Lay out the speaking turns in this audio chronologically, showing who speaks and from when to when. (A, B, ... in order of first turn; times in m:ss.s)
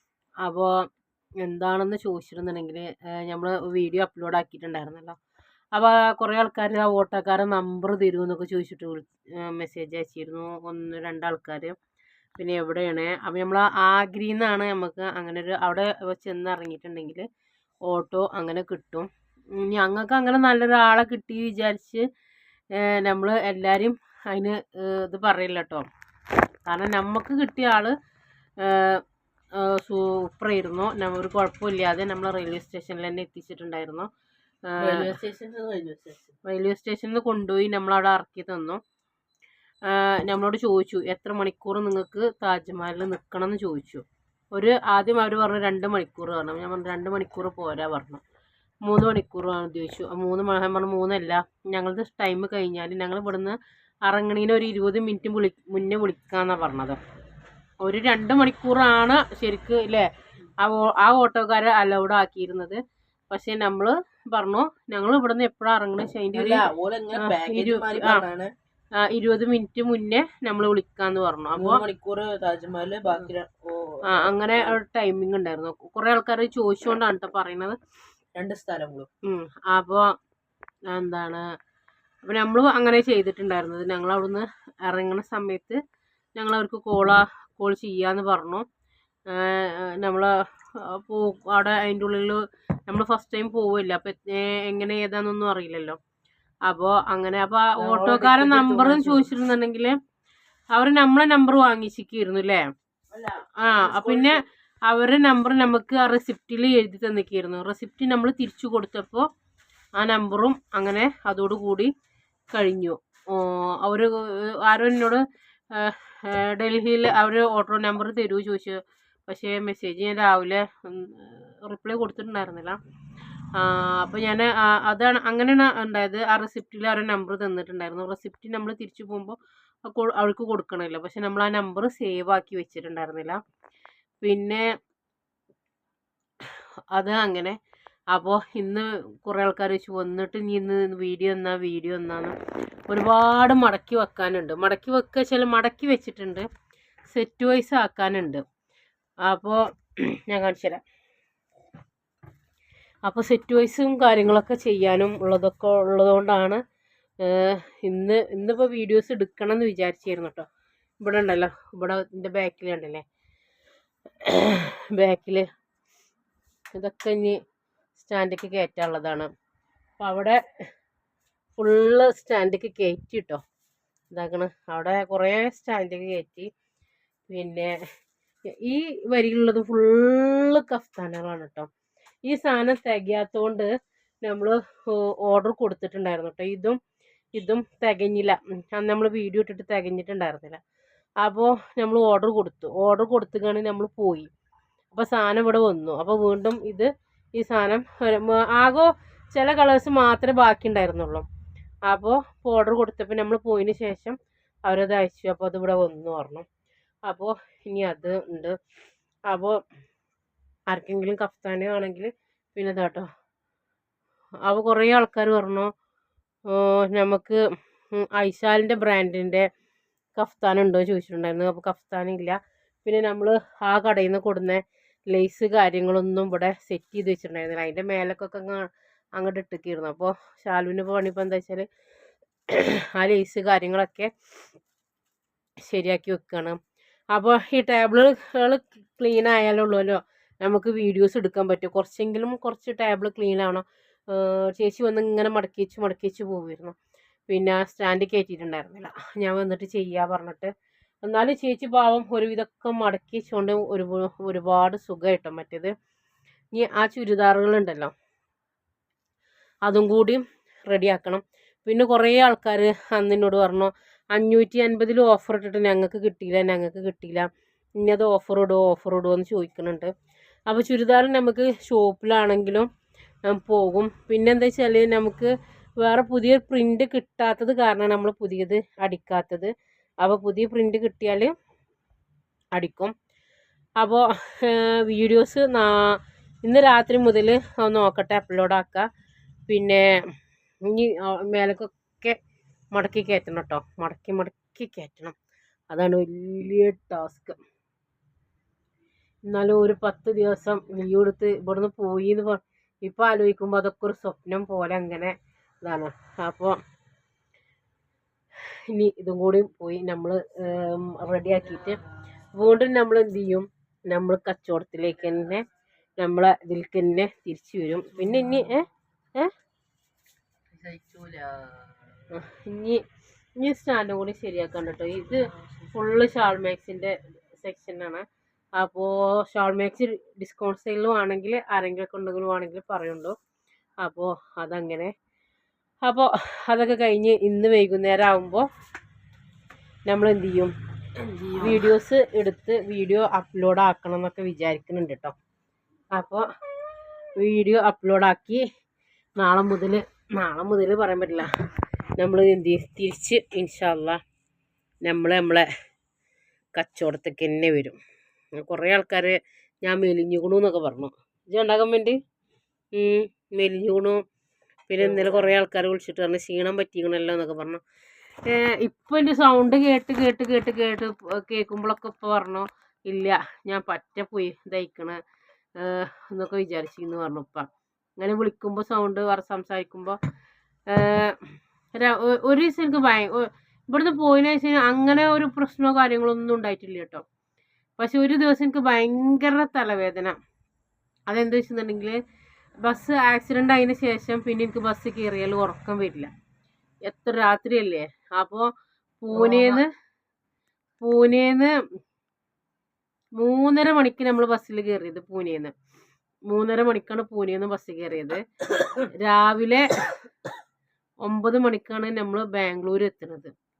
0:00.4-0:00.7 A
0:01.4-0:05.2 A
0:05.7-0:11.8 A
0:12.4-0:17.2 A
0:17.9-0:22.0 A
0:22.8-0:25.9 A
0:26.7-0:27.9 A
0:28.6-0:29.0 A
0:29.6-0:34.1 A
0:34.7-0:35.1 A
0:34.8-0:36.3 B
0:36.4-0:38.8 A
0:39.9-0:48.2 A
0:48.9-0:57.0 A
0:57.8-1:00.1 A
1:00.6-1:02.8 A
1:03.3-1:06.7 A
1:06.3-1:08.5 B
1:07.2-1:08.2 A
1:09.0-1:11.8 A
1:11.6-1:14.8 B
1:14.1-1:17.8 A
1:18.3-1:19.1 B
1:19.3-1:20.2 A
1:20.9-1:21.4 A
1:22.3-1:25.8 A
1:26.4-1:28.6 A
1:29.3-1:36.0 A
1:36.7-1:40.0 A
1:37.8-1:39.3 B
1:40.7-1:42.7 A
1:43.1-1:44.4 B
1:43.6-1:49.3 A
1:50.0-1:51.9 A
1:52.5-2:02.8 A
2:03.6-2:13.4 A
2:14.2-2:14.6 A
2:16.9-2:17.6 A
2:18.1-2:22.3 A
2:22.9-2:26.5 A
2:27.1-2:28.4 A
2:29.2-2:30.8 A
2:33.0-2:36.6 A
2:37.2-2:40.5 A
2:41.0-2:43.0 A
2:44.2-2:45.5 A
2:46.8-2:47.4 A
2:48.0-2:49.3 A
2:50.0-2:50.4 A
2:51.6-2:53.4 A
2:54.1-2:56.5 A
2:57.3-2:57.7 A
2:58.6-3:01.7 A
3:02.2-3:03.7 A
3:04.2-3:06.8 A
3:07.4-3:10.6 A
3:11.2-3:14.3 A
3:14.9-3:21.2 A
3:21.9-3:26.5 A
3:27.1-3:28.6 A
3:29.3-3:29.6 A
3:30.7-3:33.1 A
3:34.5-3:35.7 A
3:36.5-3:37.4 A
3:37.9-3:39.5 A
3:40.2-3:51.7 A
3:52.5-3:54.1 A
3:55.7-3:56.6 A
3:57.1-4:06.8 A
4:07.3-4:10.5 A
4:11.0-4:15.7 A
4:16.5-4:17.9 A
4:19.7-4:27.3 A
4:27.8-4:29.9 A
4:30.5-4:32.7 A
4:33.3-4:39.5 A
4:40.0-4:41.3 A
4:42.5-4:42.9 A
4:43.8-4:48.9 A
4:49.5-4:49.8 A
4:50.7-4:52.2 A
4:52.7-4:55.2 A
4:55.7-4:57.4 A
4:59.3-5:06.6 A
5:08.7-5:11.8 A
5:11.4-5:11.8 B
5:12.4-5:15.4 A
5:16.0-5:18.6 A
5:17.9-5:18.5 B
5:20.5-5:22.0 B
5:22.1-5:22.8 A
5:23.4-5:28.0 A
5:25.2-5:25.6 B
5:28.6-5:33.1 A
5:33.8-5:34.9 A
5:35.8-5:38.4 A
5:39.9-5:40.5 A
5:41.0-5:41.7 B
5:41.4-5:45.2 A
5:45.9-5:46.2 A
5:47.2-5:48.4 A
5:49.2-5:51.3 A
5:52.0-5:54.0 A
5:54.8-5:55.4 A
5:56.6-5:57.8 A
5:58.4-6:02.0 A
6:02.7-6:04.0 A
6:04.7-6:07.6 A
6:04.8-6:05.3 B
6:08.3-6:15.0 A
6:15.6-6:20.0 A
6:20.7-6:21.2 A
6:21.8-6:27.0 A
6:27.8-6:30.2 A
6:31.1-6:32.0 A
6:32.6-6:36.1 A
6:36.8-6:38.5 A
6:39.0-6:39.7 A
6:39.1-6:39.6 B
6:40.8-6:41.5 A
6:43.2-6:45.5 A
6:46.3-6:48.2 A
6:48.9-6:49.9 A
6:51.0-6:53.3 A